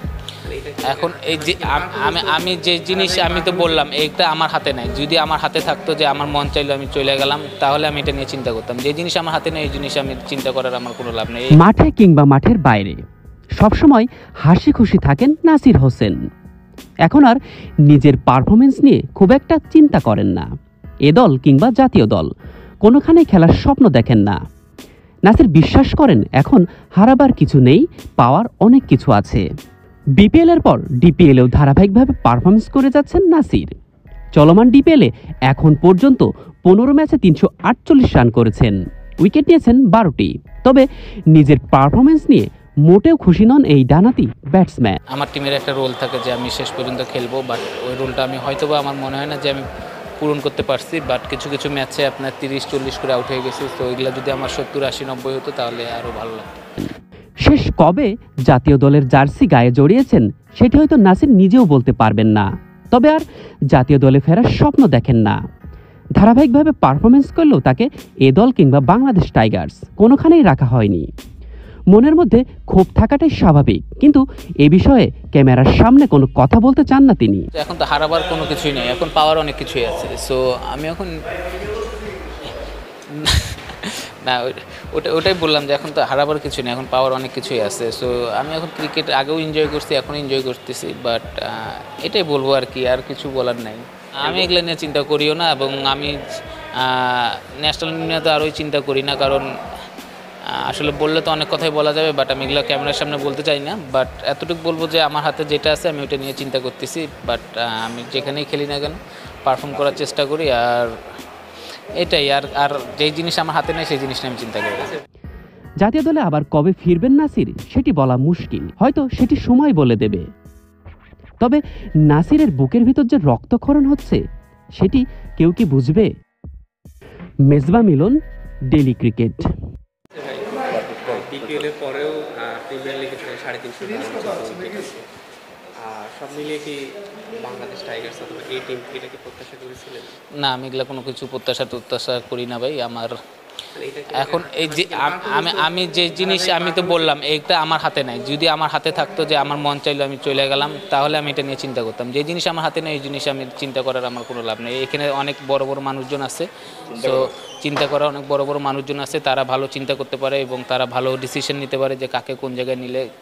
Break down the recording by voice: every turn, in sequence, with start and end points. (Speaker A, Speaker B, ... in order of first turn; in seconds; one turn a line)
Speaker A: 0.4-3.9
Speaker B: 0.8-11.5
Speaker C: 11.5-13.0
Speaker C: 13.6-16.1
Speaker C: 17.0-20.5
Speaker C: 21.1-22.3
Speaker C: 22.8-24.4
Speaker C: 25.3-29.4
Speaker C: 30.1-33.7
Speaker C: 34.3-45.0
Speaker B: 45.1-49.6
Speaker B: 50.2-56.6
Speaker C: 57.4-65.3
Speaker C: 66.2-71.1
Speaker C: 71.9-77.4
Speaker B: 77.5-81.2
Speaker B: 83.1-96.2
Speaker B: 96.8-99.5
Speaker B: 100.5-111.0
Speaker B: 112.0-114.9
Speaker C: 115.8-120.2
Speaker C: 121.4-124.2
Speaker C: 124.8-126.1
Speaker C: 127.5-128.2
Speaker C: 128.7-129.5
Speaker A: 130.1-135.1
Speaker A: 135.8-140.2
Speaker B: 140.3-143.1
Speaker A: 143.7-147.1
Speaker B: 144.1-163.1